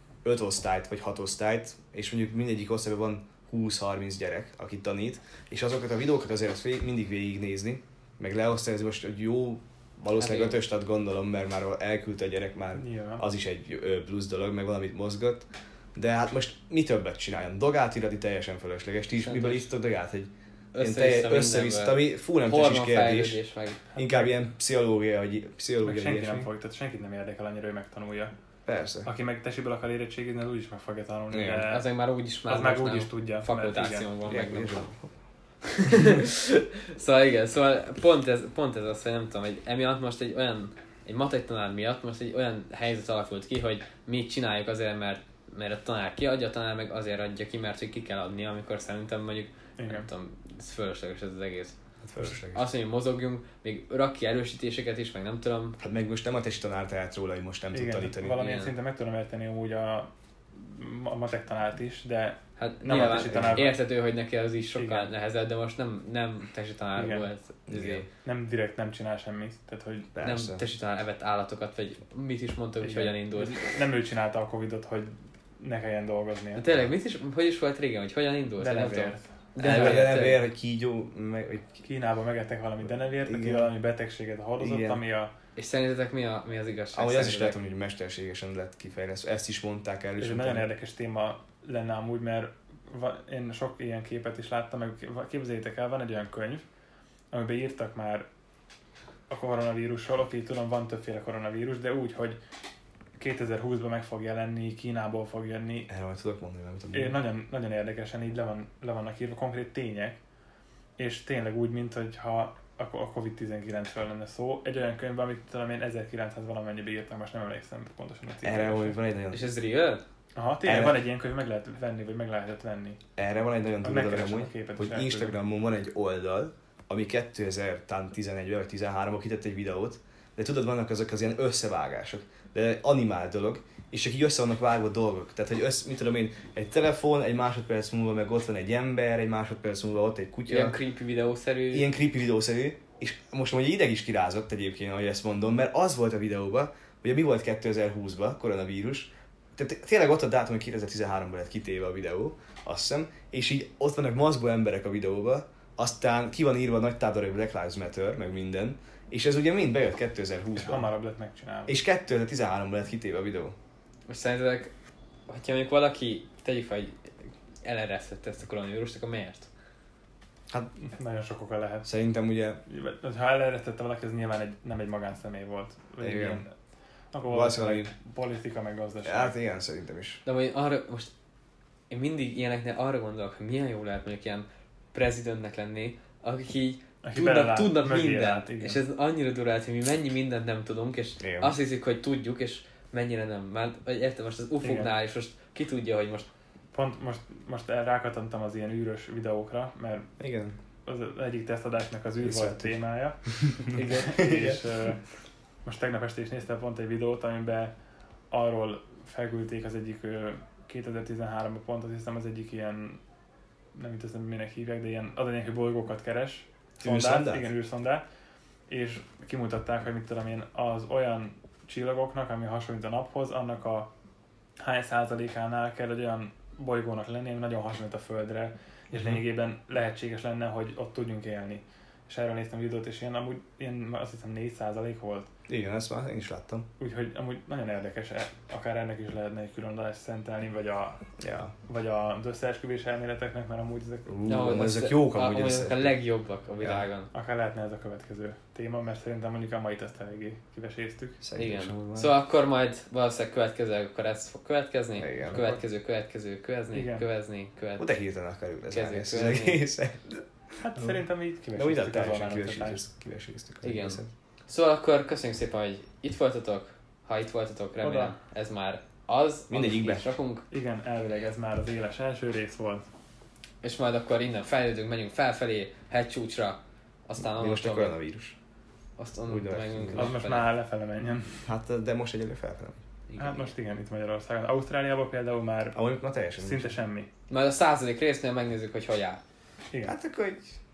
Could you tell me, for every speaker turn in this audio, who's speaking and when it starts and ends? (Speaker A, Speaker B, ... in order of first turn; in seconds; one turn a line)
Speaker A: 0.2-23.4
Speaker B: 10.2-10.6
Speaker C: 12.7-13.2
Speaker B: 19.2-19.6
Speaker B: 20.7-23.8
Speaker C: 23.9-24.4
Speaker A: 23.9-26.5
Speaker C: 25.8-28.3
Speaker A: 28.6-29.1
Speaker C: 29.0-31.9
Speaker A: 31.3-31.6
Speaker B: 31.7-34.9
Speaker C: 32.5-34.1
Speaker A: 34.3-35.1
Speaker B: 35.7-55.8
Speaker C: 49.8-50.1
Speaker A: 52.0-52.7
Speaker A: 55.8-58.4
Speaker C: 57.7-63.7
Speaker B: 58.4-58.7
Speaker B: 62.6-68.0
Speaker A: 62.9-63.7
Speaker C: 64.8-65.1
Speaker C: 67.0-67.3
Speaker A: 67.7-68.1
Speaker C: 68.2-70.1
Speaker A: 70.1-70.6
Speaker B: 70.2-73.7
Speaker C: 72.8-76.7
Speaker B: 76.5-80.4
Speaker C: 78.6-80.1
Speaker A: 79.6-81.8
Speaker C: 81.8-85.3
Speaker A: 83.2-83.7
Speaker A: 84.6-85.0
Speaker B: 85.6-87.6
Speaker A: 86.9-90.7
Speaker C: 90.2-96.6
Speaker C: 97.3-98.3
Speaker C: 99.3-102.4
Speaker C: 103.2-105.9
Speaker A: 105.9-107.2
Speaker C: 106.9-110.2
Speaker C: 111.0-119.0
Speaker A: 118.4-119.5
Speaker B: 119.3-120.0
Speaker C: 120.3-123.0
Speaker A: 120.6-121.0
Speaker A: 123.2-140.8
Speaker C: 123.8-125.3
Speaker B: 140.5-141.9
Speaker A: 141.7-160.8
Speaker C: 160.6-161.7
Speaker A: 161.7-163.5
Speaker B: 164.1-164.7
Speaker B: 165.3-167.0
Speaker B: 167.6-169.5
Speaker C: 170.9-171.9
Speaker A: 171.8-172.6
Speaker C: 172.7-176.5
Speaker A: 176.0-176.4
Speaker C: 177.1-179.3
Speaker A: 177.3-177.9
Speaker A: 179.0-180.2
Speaker B: 180.2-181.1
Speaker B: 181.9-196.3
Speaker C: 187.0-188.8
Speaker A: 191.2-191.5
Speaker C: 194.6-194.9
Speaker C: 196.7-200.1
Speaker A: 200.2-200.6
Speaker C: 200.8-205.0
Speaker A: 202.2-202.8
Speaker A: 203.3-204.6
Speaker C: 205.6-207.7
Speaker C: 208.3-213.0
Speaker C: 213.7-218.0
Speaker A: 216.8-217.5
Speaker C: 218.7-223.9
Speaker C: 224.6-235.3
Speaker A: 235.5-236.7
Speaker C: 236.8-241.0
Speaker A: 241.2-241.5
Speaker C: 241.7-244.1
Speaker A: 244.1-245.9
Speaker B: 244.2-247.1
Speaker A: 246.6-246.9
Speaker C: 247.1-251.2
Speaker A: 251.2-252.1
Speaker B: 251.3-257.9
Speaker A: 255.0-255.4
Speaker C: 255.3-255.6
Speaker C: 256.7-257.0
Speaker A: 257.8-260.2
Speaker B: 258.7-259.6
Speaker C: 260.6-262.8
Speaker A: 261.5-264.1
Speaker B: 263.6-270.4
Speaker C: 267.8-268.1
Speaker A: 269.5-270.0
Speaker C: 270.5-272.9
Speaker B: 273.6-277.9
Speaker A: 277.2-278.3
Speaker B: 279.0-280.5
Speaker A: 279.3-280.1
Speaker C: 279.9-281.4
Speaker A: 281.4-282.8
Speaker B: 283.1-283.5
Speaker C: 283.2-285.8
Speaker A: 285.7-286.7
Speaker C: 286.4-287.1
Speaker B: 287.3-289.2
Speaker A: 289.8-290.5